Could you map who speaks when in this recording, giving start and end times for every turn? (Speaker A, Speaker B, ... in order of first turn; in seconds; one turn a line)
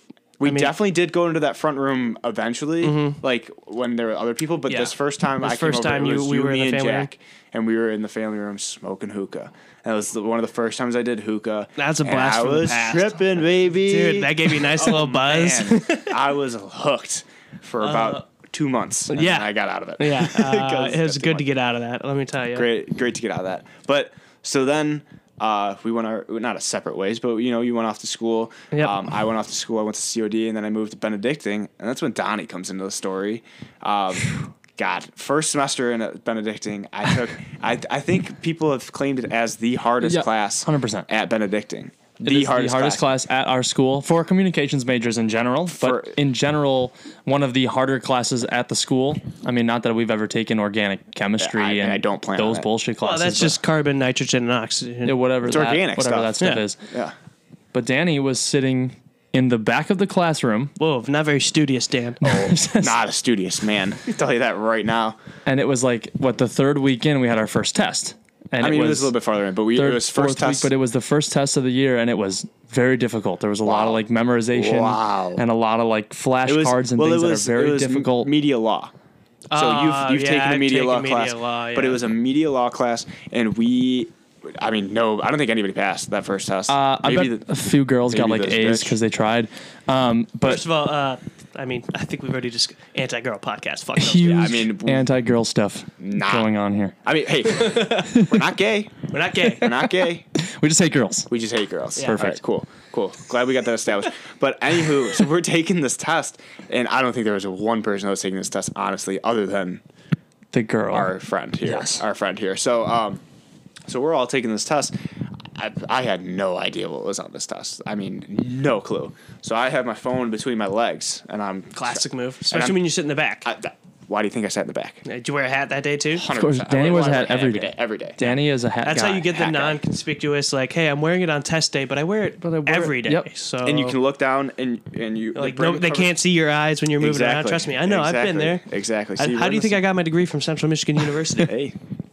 Speaker A: 0.4-21.5
Speaker B: 0.4-0.7
Speaker B: 2.8-3.2
Speaker B: 4.7-7.1
Speaker B: 11.8-16.1
Speaker B: 17.8-18.2
Speaker B: 19.1-22.7
Speaker A: 22.5-43.1
Speaker B: 28.7-29.0
Speaker C: 40.0-41.1
Speaker C: 42.2-53.6
Speaker A: 45.8-46.2
Speaker A: 51.4-52.7
Speaker B: 53.0-55.2
Speaker C: 55.0-56.8
Speaker A: 55.4-56.4
Speaker A: 56.9-57.1
Speaker C: 57.7-60.7
Speaker B: 60.8-62.2
Speaker C: 62.2-63.0
Speaker A: 62.2-65.2
Speaker C: 65.5-69.1
Speaker A: 68.6-70.7
Speaker C: 69.8-78.3
Speaker A: 73.7-75.5
Speaker A: 76.5-78.9
Speaker B: 79.5-82.0
Speaker A: 79.5-87.5
Speaker C: 86.7-90.6
Speaker A: 88.1-89.0
Speaker B: 90.4-94.6
Speaker C: 94.0-97.0
Speaker A: 94.2-95.1
Speaker A: 96.0-96.5
Speaker A: 97.0-100.2
Speaker B: 97.5-98.1
Speaker C: 98.1-98.4
Speaker B: 99.1-99.7
Speaker C: 99.6-101.3
Speaker A: 101.3-109.8
Speaker B: 102.0-102.3
Speaker C: 102.0-102.4
Speaker C: 110.5-111.1
Speaker A: 110.9-113.2
Speaker A: 113.9-114.9
Speaker A: 115.5-122.9
Speaker B: 121.8-123.5
Speaker A: 123.4-125.0
Speaker B: 125.0-126.3
Speaker A: 126.1-128.3
Speaker C: 126.3-129.3
Speaker B: 128.8-134.0
Speaker A: 129.3-129.8
Speaker C: 132.6-133.3
Speaker A: 133.6-136.2
Speaker B: 135.3-138.6
Speaker A: 137.0-139.9
Speaker B: 139.2-141.5
Speaker A: 141.4-141.8